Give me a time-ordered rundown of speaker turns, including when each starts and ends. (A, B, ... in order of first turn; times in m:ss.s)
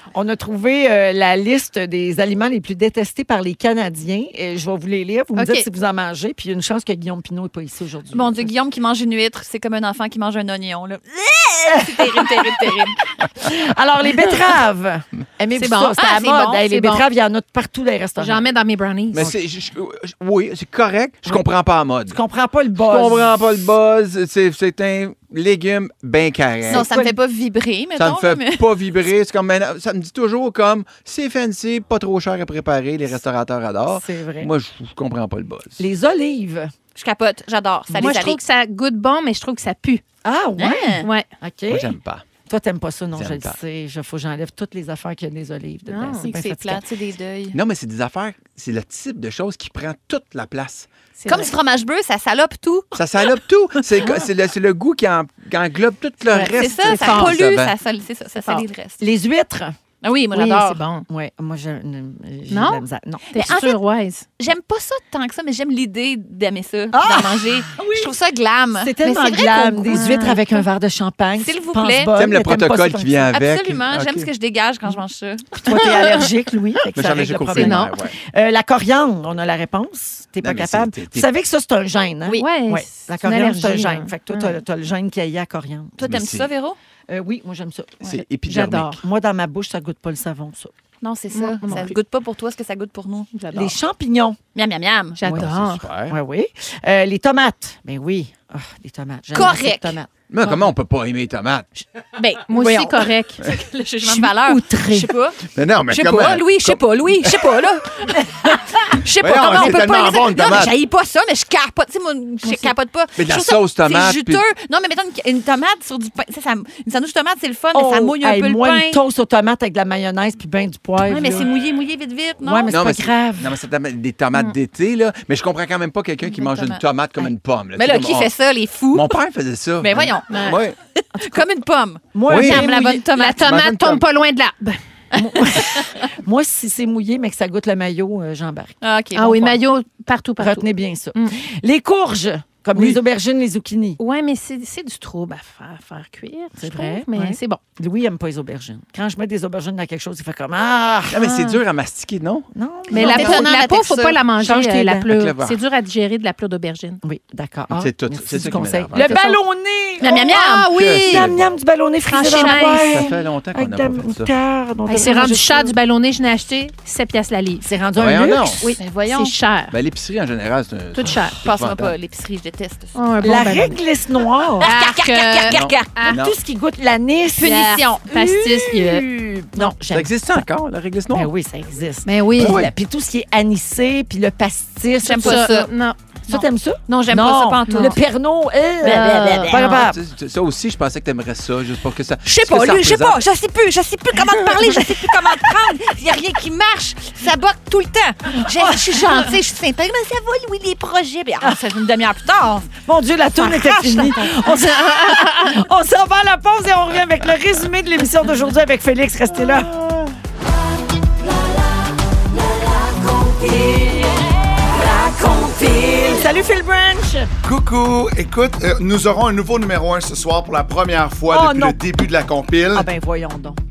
0:00.1-0:08.5 A
0:05.4-0:05.7 B
0:08.1-0:13.0 C
0:11.7-0:12.7 A
0:13.4-0:18.5 A
0:15.6-0:17.0 B
0:16.0-0:16.6 C
0:18.2-0:19.3 B
0:19.1-0:22.2 D
0:22.1-0:23.3 A
0:22.8-0:26.9 D
0:26.7-0:27.1 A
0:26.7-0:28.8 C
0:28.0-0:35.8 D
0:33.9-0:34.5 A
0:35.8-0:36.7 A
0:37.0-0:38.4 C
0:37.9-0:38.2 A
0:38.0-0:40.0 B
0:40.2-0:41.9 A
0:40.6-0:41.1 C
0:41.7-0:42.3 D
0:42.5-0:46.8 A
0:43.2-0:43.6 D
0:45.9-0:46.3 B
0:46.2-0:47.6 C
0:47.5-0:50.9 D
0:51.2-0:51.5 B
0:51.3-0:52.9 C
0:53.0-0:57.7 D
0:56.3-0:57.4 B
0:56.6-0:59.0 C
0:58.3-0:58.6 B
0:59.0-0:59.8 A
1:00.0-1:00.8 C
1:00.3-1:01.1 B
1:01.1-1:03.6 A
1:02.5-1:04.2 B
1:03.4-1:03.8 C
1:04.4-1:10.4 C
1:06.9-1:08.1 A
1:08.8-1:13.3 A
1:09.9-1:10.4 B
1:11.4-1:12.1 C
1:12.1-1:14.3 D
1:13.3-1:15.5 C
1:15.5-1:26.0 A
1:16.9-1:18.1 D
1:17.5-1:17.9 B
1:20.4-1:21.3 D
1:22.3-1:24.6 B
1:26.0-1:26.8 C
1:26.0-1:26.5 D
1:27.1-1:30.7 A
1:28.0-1:29.0 D
1:28.0-1:28.9 B
1:31.0-1:33.3 C
1:31.3-1:32.0 B
1:33.4-1:33.7 B
1:33.5-1:34.4 A
1:34.6-1:35.2 C
1:35.2-1:35.9 B
1:35.2-1:36.2 D
1:36.1-1:40.7 A
1:39.3-1:40.0 C
1:40.3-1:41.7 D
1:42.2-1:59.0 C
1:42.5-1:44.3 B
1:44.4-1:45.1 A
1:45.5-1:47.4 D
1:49.2-1:50.8 D
1:53.2-1:54.4 D
1:57.7-2:01.5 A
2:01.1-2:02.8 C
2:02.4-2:03.5 A
2:02.7-2:08.3 D
2:06.3-2:06.8 C
2:07.8-2:09.2 C
2:08.9-2:10.8 D
2:09.8-2:10.6 C
2:10.3-2:10.6 B
2:11.2-2:11.5 A
2:11.2-2:13.5 C
2:12.1-2:13.1 A
2:12.3-2:12.7 D
2:12.5-2:14.8 B
2:13.4-2:14.0 D
2:15.1-2:18.8 A
2:18.8-2:19.6 C
2:19.2-2:21.4 B
2:20.4-2:24.0 A
2:24.0-2:27.6 B
2:26.6-2:31.2 A
2:31.1-2:32.5 D
2:31.2-2:31.6 B
2:32.5-2:33.5 A
2:32.9-2:37.0 B
2:32.9-2:34.2 C
2:34.4-2:35.1 A
2:35.1-2:35.6 D
2:37.0-2:45.8 A
2:37.7-2:39.2 D
2:39.1-2:39.4 B
2:40.0-2:40.7 C
2:40.0-2:41.3 B
2:40.5-2:41.5 D
2:42.1-2:43.0 B
2:42.2-2:42.7 C
2:42.9-2:44.3 D
2:44.9-2:47.7 B
2:47.6-2:48.5 A
2:48.0-2:48.8 D
2:48.6-2:49.8 B
2:48.8-2:49.4 C
2:49.7-2:51.9 D
2:51.0-2:51.4 B
2:51.4-2:53.0 C
2:52.9-2:53.8 B
2:53.2-2:54.7 A
2:54.6-2:56.2 B
2:54.6-2:56.1 C
2:55.5-2:56.4 D
2:56.1-3:00.4 A
2:57.4-2:58.0 C
2:57.4-2:59.8 B
2:59.9-3:01.3 D
3:01.1-3:05.6 A
3:02.1-3:02.6 B
3:02.4-3:02.7 D
3:05.0-3:05.7 C
3:05.2-3:06.0 B
3:06.3-3:10.0 A
3:06.3-3:08.0 C
3:07.7-3:08.0 B
3:08.8-3:09.8 B
3:09.0-3:09.4 C
3:09.6-3:13.2 D
3:12.2-3:22.7 C
3:18.4-3:19.1 A
3:22.8-3:29.7 A
3:23.4-3:24.4 C
3:25.2-3:25.5 B
3:32.4-3:37.3 A
3:37.4-3:42.9 E
3:41.3-3:41.8 A
3:42.7-3:43.6 A